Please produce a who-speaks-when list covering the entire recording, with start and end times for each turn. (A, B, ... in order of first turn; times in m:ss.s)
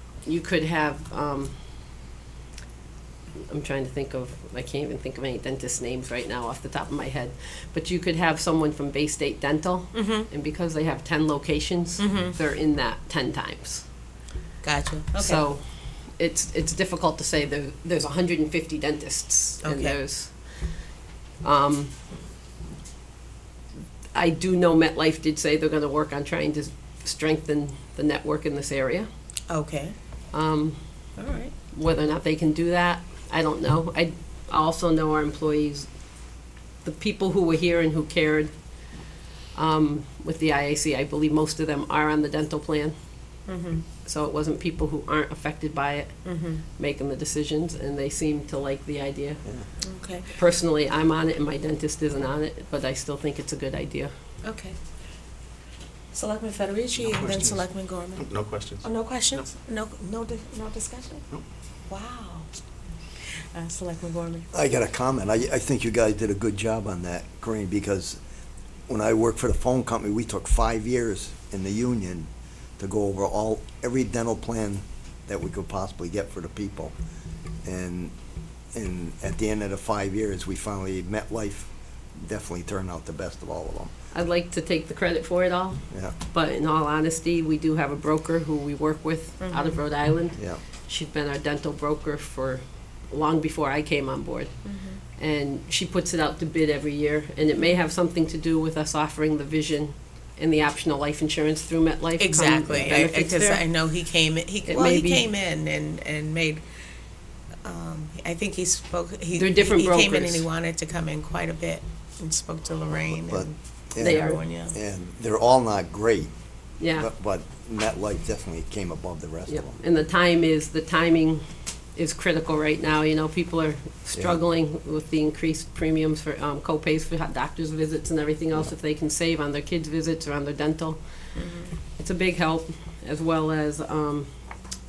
0:00.2-0:01.5 A
0:03.5-0:13.8 A
0:09.9-0:10.3 B
0:12.0-0:12.4 B
0:14.6-0:15.4 B
0:15.2-0:20.4 A
0:19.6-0:20.0 B
0:21.4-0:21.9 A
0:24.1-0:29.1 A
0:29.5-0:29.9 B
0:30.3-0:31.1 A
0:31.2-0:31.5 B
0:31.7-0:35.9 A
0:36.8-0:38.5 A
0:39.5-0:42.9 A
0:43.5-0:43.8 B
0:44.0-0:49.4 A
0:46.2-0:46.6 B
0:49.8-0:50.3 B
0:50.3-0:54.1 A
0:54.4-0:54.8 B
0:56.1-0:58.3 B
0:57.0-0:59.5 C
0:58.8-1:01.2 B
1:01.9-1:02.5 B
1:03.5-1:04.5 B
1:04.5-1:08.2 D
1:08.9-1:16.9 D
1:17.6-1:18.1 D
1:18.7-1:23.9 D
1:24.1-1:43.6 A
1:29.4-1:29.8 B
1:30.4-1:30.6 D
1:34.6-1:35.0 B
1:42.2-1:46.6 B
1:44.7-1:45.3 A
1:47.6-1:54.7 B
1:49.4-1:50.4 A
1:53.3-1:56.3 D
1:54.0-1:54.4 A
1:56.8-1:57.1 A
1:56.9-1:59.8 D
1:59.5-2:01.4 A
2:01.9-2:11.0 A
2:04.2-2:04.4 D
2:11.3-2:11.7 B
2:12.0-2:14.3 A